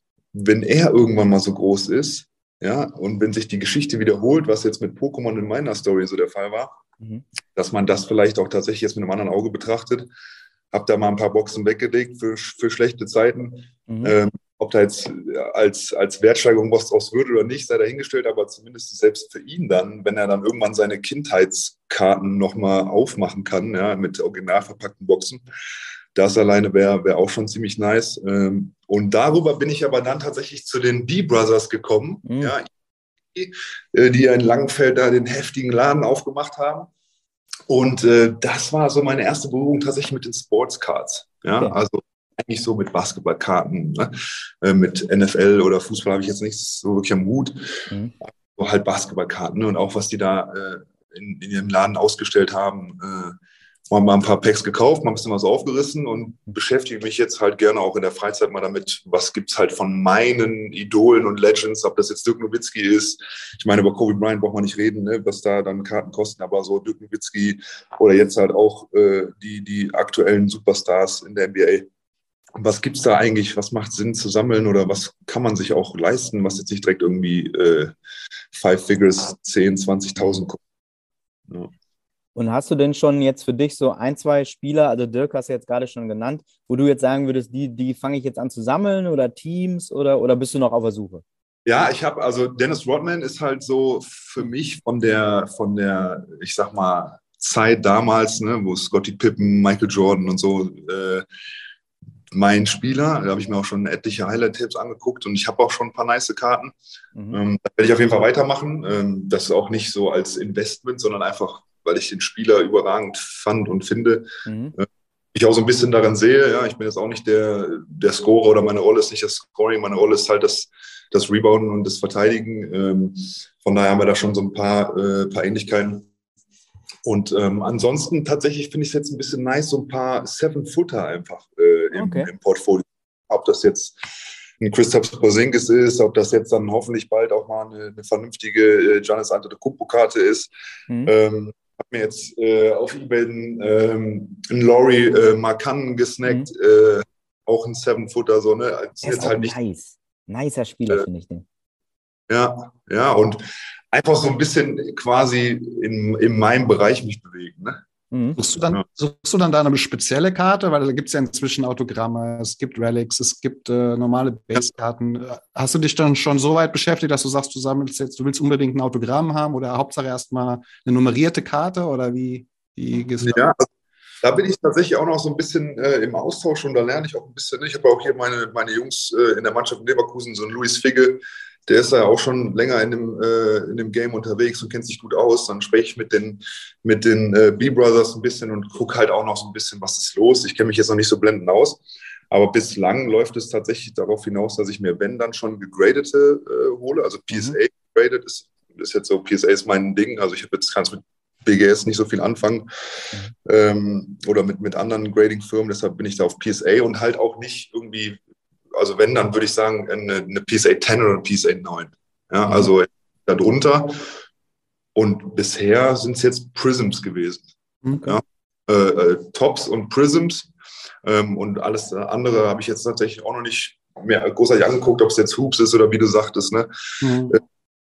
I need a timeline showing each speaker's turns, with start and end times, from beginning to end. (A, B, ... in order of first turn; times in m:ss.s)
0:00.3-0:06.8 A
0:07.5-0:10.1 A
0:10.7-0:25.4 A
0:13.9-0:14.1 B
0:26.1-0:32.7 A
0:32.2-0:32.6 B
0:33.3-0:36.9 A
0:37.7-0:47.8 A
0:48.4-0:53.4 A
0:53.9-1:11.9 A
1:12.6-1:17.9 A
1:18.5-1:20.6 A
1:22.3-1:31.2 B
1:31.6-1:41.2 A
1:42.3-1:46.8 A
1:47.1-1:47.4 B
1:47.3-2:06.1 A
1:54.4-1:54.7 B
2:07.0-2:14.0 A
2:11.9-2:12.3 B
2:14.6-2:20.5 A
2:21.0-2:29.5 A
2:26.2-2:26.5 B
2:29.0-2:31.4 B
2:32.3-2:37.8 A
2:38.1-2:38.4 B
2:38.4-2:53.4 C
2:53.2-2:53.6 A
2:54.2-3:22.7 A
3:17.3-3:17.6 B
3:23.4-3:28.2 A
3:28.7-3:34.0 A
3:34.9-3:37.5 A
3:37.8-3:38.2 C
3:38.0-3:40.5 A
3:41.0-3:47.4 A
3:47.0-3:47.3 C